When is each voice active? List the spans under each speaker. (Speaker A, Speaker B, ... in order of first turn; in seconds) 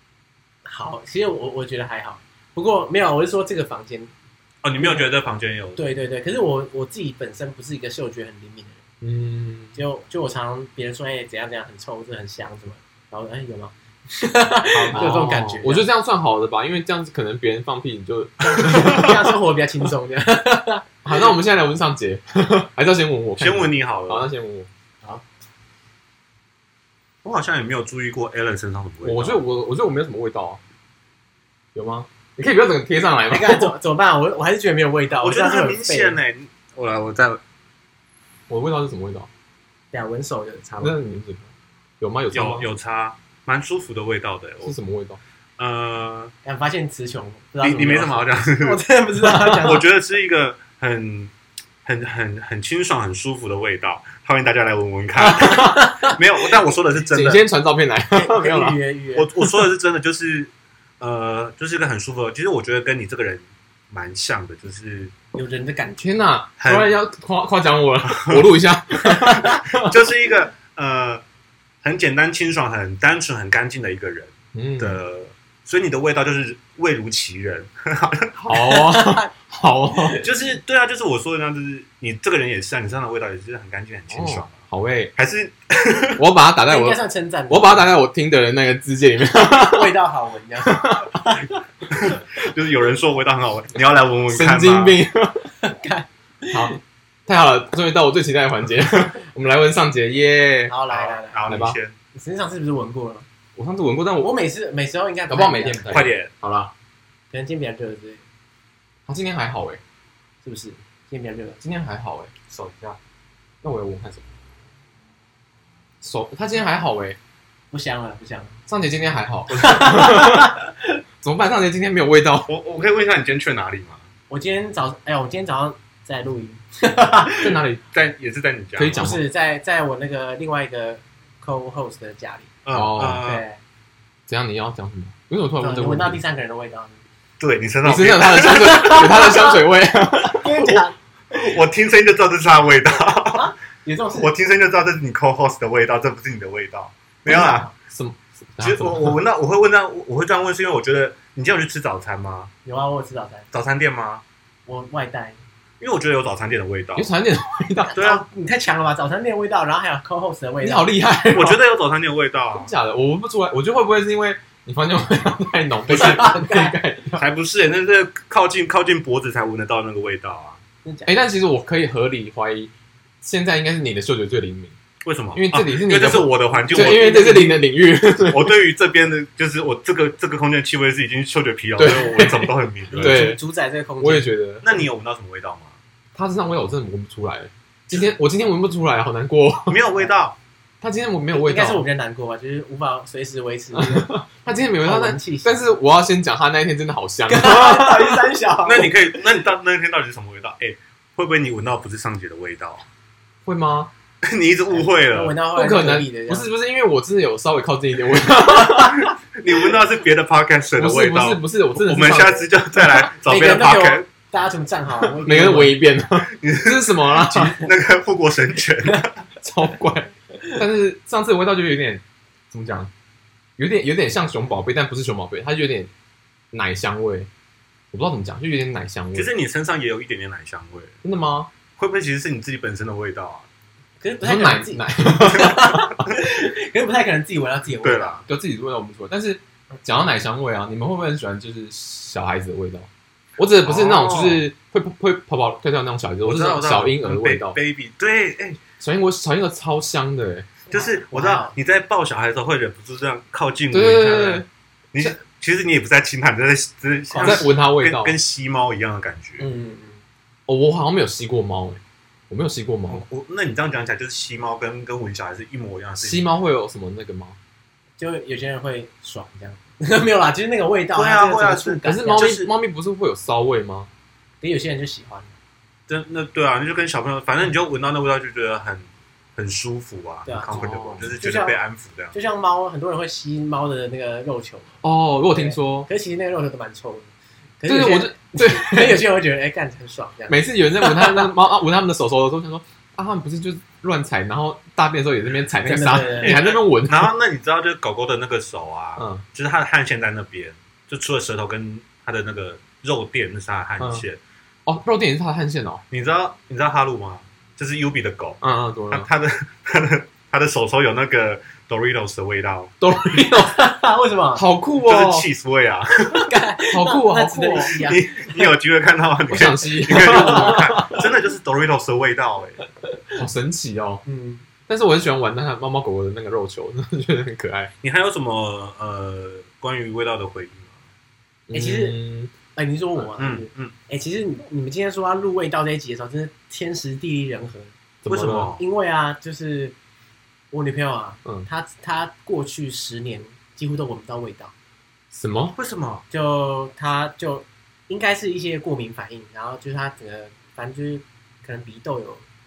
Speaker A: 0.7-4.1, 4.8-5.1, 5.8-8.8, 9.8-15.9, 18.5-21.3, 33.3-36.2, 39.9-41.0, 46.5-49.9, 55.3-56.2, 58.1-59.6, 65.3-66.0, 69.0-69.6, 78.5-79.3, 79.9-80.3, 86.7-87.9, 89.3-91.5, 95.6-96.8, 100.7-101.4, 102.1-103.2, 104.2-106.1, 107.3-108.2, 110.4-111.6, 117.7-118.6, 119.5-120.7, 124.3-127.6, 129.0-132.5, 133.2-133.6, 135.6-137.0, 138.3-139.7, 140.2-141.0, 143.3-144.3, 147.4-147.7, 152.7-153.5, 154.7-155.4, 157.9-160.9, 165.9-166.8, 170.8-171.2, 176.6-177.6, 182.9-184.3, 191.3-195.7, 197.3-199.2, 204.7-206.5, 213.1-215.8, 234.0-238.2, 250.7-251.6, 257.1-257.4, 259.4-260.0, 268.0-272.3, 274.4-275.3, 280.3-281.6, 282.1-284.8, 285.3-291.3, 295.6-296.4, 313.1-314.4, 316.1-318.5, 320.0-321.0, 324.1-324.4, 331.5-332.0, 332.5-337.7, 338.6-339.8, 340.5-344.5, 346.1-352.2
Speaker B: 4.6-5.8, 14.7-15.3, 18.6-19.1, 23.4-24.3, 27.2-29.4, 35.2-37.4, 42.3-44.8, 45.6-46.3, 47.6-48.8, 49.5-51.3, 51.9-57.4, 59.2-65.1, 66.6-66.9, 68.0-68.5, 69.3-71.2, 71.8-78.3, 80.2-84.6, 85.2-86.2, 91.9-95.0, 100.9-102.0, 105.9-106.3, 112.5-113.0, 122.5-124.1, 127.9-129.2, 132.7-133.4, 137.4-139.0, 141.3-143.5, 144.1-147.7, 148.6-152.5, 153.5-154.2, 155.8-157.1, 158.0-158.2, 161.3-162.7, 167.2-170.6, 175.1-177.5, 178.3-183.2, 184.6-185.8, 189.7-190.4, 198.7-202.8, 204.2-205.4, 208.6-214.1, 216.2-219.2, 229.2-231.0, 231.8-233.5, 237.8-238.2, 243.6-244.4, 246.2-248.6, 250.7-259.5, 262.9-266.2, 270.9-272.5, 275.9-282.1, 296.2-304.2, 305.9-312.7, 314.8-316.3, 317.8-322.6, 327.8-330.8, 333.2-333.7, 338.1-338.6, 345.6-346.1
Speaker C: 9.0-9.8, 14.9-19.3, 21.1-24.7, 29.0-30.6, 31.8-33.7, 38.5-39.3, 40.8-42.7, 44.6-45.2, 49.3-49.6, 55.2-55.8, 57.0-58.8, 66.0-69.9, 74.5-75.0, 78.4-80.2, 84.1-85.1, 86.2-89.9, 90.7-91.1, 94.3-95.5, 96.5-100.8, 101.5-101.8, 103.6-104.3, 105.3-106.7, 109.1-109.8, 111.6-112.3, 113.6-114.2, 116.0-117.2, 118.7-120.5, 121.2-122.5, 127.4-127.8, 128.8-129.2, 132.8-133.2, 134.3-136.2, 137.8-140.8, 147.3-149.2, 157.0-158.0, 160.6-161.6, 162.5-167.2, 171.1-174.8, 175.3-178.6, 181.8-183.4, 184.0-184.7, 186.2-189.9, 190.8-191.8, 193.7-198.2, 203.4-203.9, 205.6-209.1, 210.8-212.5, 215.2-217.6, 219.4-222.9, 223.6-225.9, 226.5-227.3, 227.9-229.3, 231.0-231.5, 234.2-236.1, 238.3-247.6, 248.8-250.6, 253.7-254.5, 257.2-258.2, 260.5-263.1, 266.0-267.4, 271.9-273.9, 280.5-281.1, 284.8-285.9, 287.7-289.0, 290.3-297.1, 299.0-299.2, 303.8-304.0, 304.7-305.8, 308.4-309.1, 312.8-313.7, 314.4-315.3, 316.7-317.8, 319.3-321.0, 323.2-324.0, 324.7-327.7, 331.5-332.3, 338.0-338.5, 345.1-345.6